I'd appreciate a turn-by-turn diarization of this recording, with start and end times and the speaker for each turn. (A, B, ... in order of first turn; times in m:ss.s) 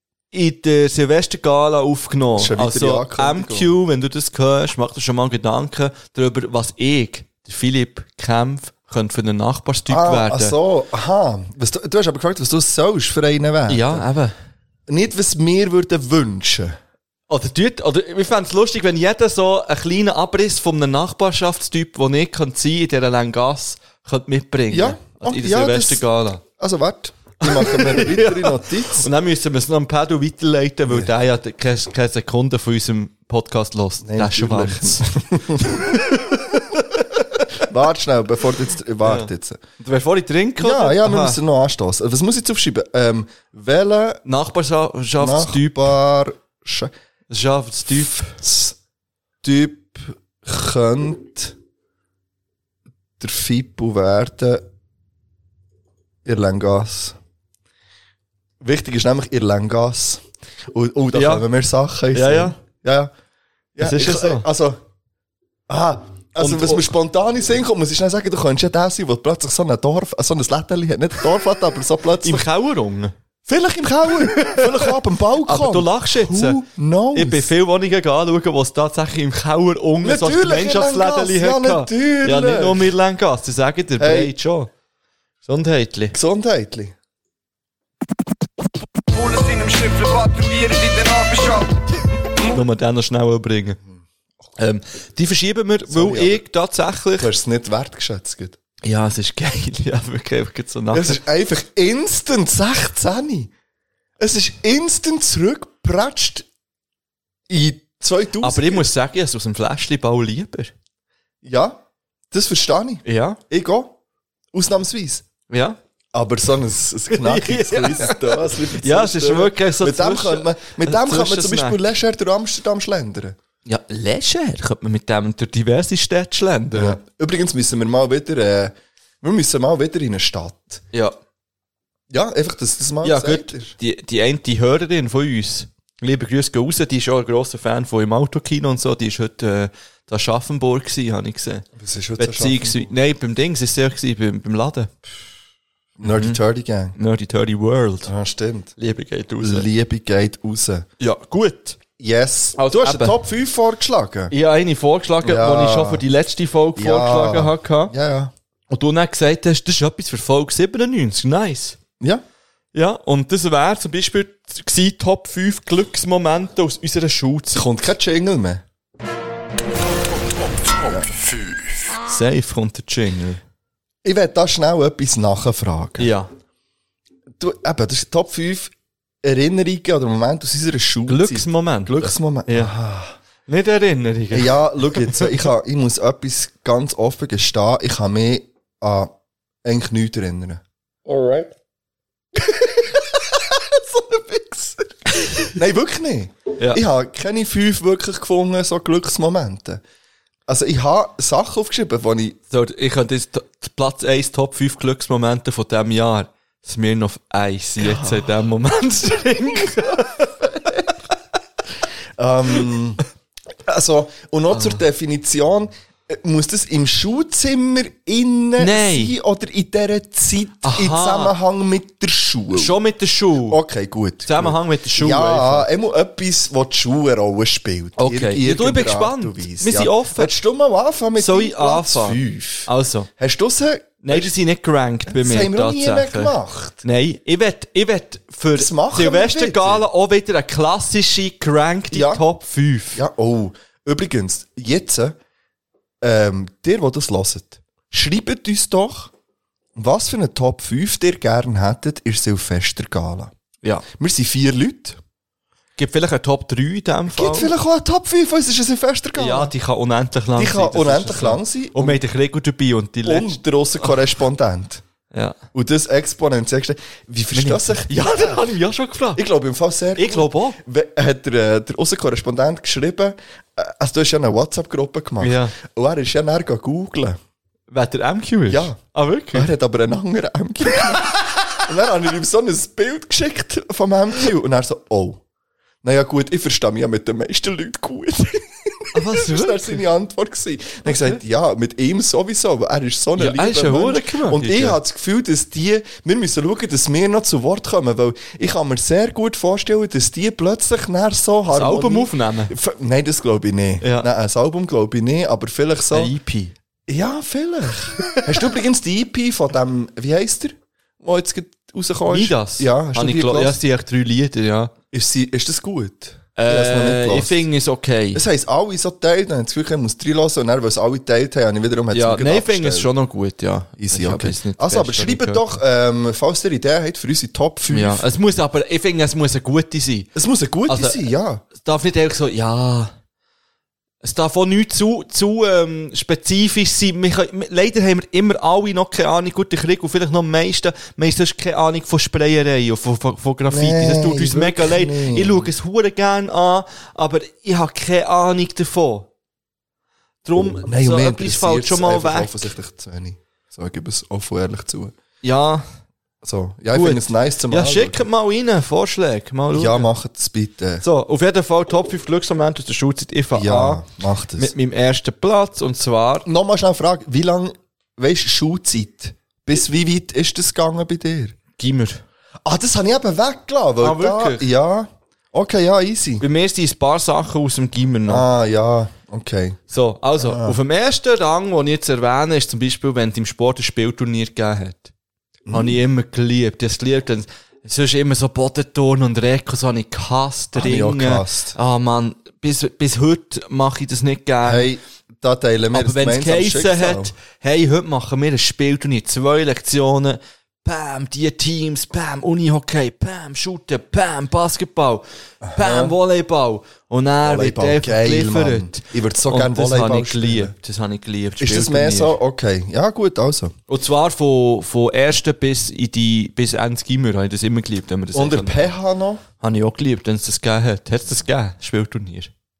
0:00.3-0:10.5 A
0:02.3-0:03.7 B
0:09.9-0:14.0 B
0:13.7-0:14.3 A
0:14.9-0:16.8 B
0:17.3-0:26.4 A
0:24.7-0:29.1 B
0:27.4-0:35.1 A
0:34.0-0:36.0 B
0:35.6-0:37.4 A
0:37.5-0:39.6 B
0:39.0-0:41.4 A
0:40.6-0:44.2 B
0:44.2-0:45.9 A
0:45.2-0:46.9 B
0:47.3-0:48.4 A
0:47.9-0:48.8 B
0:49.4-0:51.5 B
0:53.2-0:54.6 B
0:56.2-0:57.2 B
0:58.6-1:03.1 B
1:01.1-1:01.4 A
1:02.1-1:02.6 A
1:03.8-1:04.8 B
1:03.8-1:04.5 A
1:05.7-1:12.4 B
1:06.4-1:06.9 A
1:12.2-1:13.1 A
1:13.4-1:17.5 B
1:14.3-1:16.6 A
1:17.1-1:24.7 A
1:20.0-1:22.9 B
1:24.0-1:24.3 B
1:25.4-1:26.2 A
1:26.1-1:26.9 B
1:29.1-1:31.8 C
1:32.4-1:33.8 A
1:34.6-1:37.3 A
1:35.8-1:36.4 B
1:37.2-1:38.6 B
1:38.8-1:41.2 A
1:40.9-1:43.5 B
1:44.2-1:46.5 B
1:47.5-1:48.9 B
1:48.4-1:50.7 A
1:51.4-1:53.9 B
1:53.0-1:53.4 A
1:54.5-1:55.2 B
1:55.5-1:55.8 A
1:56.1-2:03.4 B
1:57.1-2:01.8 A
2:03.6-2:07.0 A
2:06.7-2:10.8 B
2:12.1-2:13.7 B
2:13.0-2:21.6 A
2:21.8-2:22.9 B
2:22.2-2:24.9 A
2:26.0-2:27.0 B
2:26.0-2:26.4 A
2:27.0-2:28.1 A
2:28.0-2:28.7 B
2:28.8-2:29.7 A
2:29.4-2:30.8 B
2:31.0-2:31.8 A
2:32.0-2:34.3 B
2:32.6-2:33.2 A
2:34.3-2:37.9 A
2:35.2-2:36.0 B
2:36.7-2:38.3 B
2:38.7-2:41.8 A
2:42.7-2:47.6 A
2:47.5-2:48.6 B
2:50.8-2:51.1 B
2:52.1-2:53.4 A
2:54.0-2:56.1 B
2:56.0-2:56.3 A
2:57.4-2:58.7 B
2:59.2-3:03.1 B
3:01.1-3:02.7 A
3:03.5-3:05.3 A
3:04.3-3:09.1 B
3:09.6-3:10.6 B
3:13.5-3:14.8 B
3:15.5-3:19.8 B
3:20.5-3:22.4 B
3:22.5-3:30.4 A
3:27.8-3:28.3 B
3:32.2-3:33.0 B
3:33.6-3:42.7 B
3:34.5-3:34.8 A
3:38.6-3:39.1 A
3:40.6-3:41.3 A
3:42.5-3:43.6 A
3:43.4-3:54.3 B
3:44.2-3:45.7 A
3:48.0-3:50.3 A
3:51.2-3:53.1 A
3:54.0-4:03.0 A
3:55.1-3:56.8 B
3:58.5-3:59.8 B
4:01.9-4:02.2 B
4:02.9-4:05.2 B
4:06.0-4:09.1 B
4:09.8-4:13.3 B
4:13.9-4:15.0 B
4:15.8-4:17.5 A
4:17.1-4:19.5 B
4:19.2-4:23.9 A
4:20.4-4:22.0 B
4:23.0-4:24.8 B
4:25.1-4:25.4 A
4:25.5-4:28.4 B
4:27.3-4:29.2 A
4:29.1-4:37.2 B
4:30.0-4:30.6 A
4:35.2-4:35.5 A
4:37.7-4:39.5 A
4:38.5-4:38.8 B
4:39.3-4:45.2 B
4:45.8-5:06.1 B
4:48.9-4:49.8 A
4:50.8-4:51.2 A
4:53.2-4:54.8 A
5:01.5-5:02.5 A
5:03.8-5:04.1 A
5:05.9-5:06.5 A
5:06.9-5:13.6 B
5:12.1-5:14.7 A
5:14.9-5:17.4 B
5:16.4-5:18.2 A
5:18.1-5:22.9 B
5:21.9-5:25.4 A
5:23.8-5:28.0 B
5:27.7-5:30.1 A
5:30.1-5:31.4 B
5:30.7-5:32.9 A
5:34.0-5:49.1 A
5:43.5-5:45.5 B
5:50.2-5:52.5 A
5:50.5-5:54.9 B
5:55.2-5:55.6 A
5:56.2-5:58.1 B
5:56.7-5:59.9 A
5:59.5-6:00.8 B
6:00.8-6:03.8 A
6:03.3-6:04.5 B
6:04.4-6:06.2 A
6:06.2-6:11.3 B
6:11.6-6:12.0 A
6:12.4-6:16.2 B
6:13.8-6:14.5 A
6:16.2-6:18.2 A
6:18.0-6:19.6 B
6:19.7-6:24.9 A
6:20.2-6:20.6 B
6:25.4-6:25.8 B
6:25.5-6:34.7 A
6:30.5-6:31.6 B
6:34.4-6:37.1 B
6:35.7-6:45.0 A
6:45.4-6:45.9 B
6:45.5-6:52.2 A
6:47.2-6:50.5 B
6:51.4-6:53.5 B
6:53.7-6:58.7 A
6:58.1-6:59.2 B
6:59.4-7:02.3 A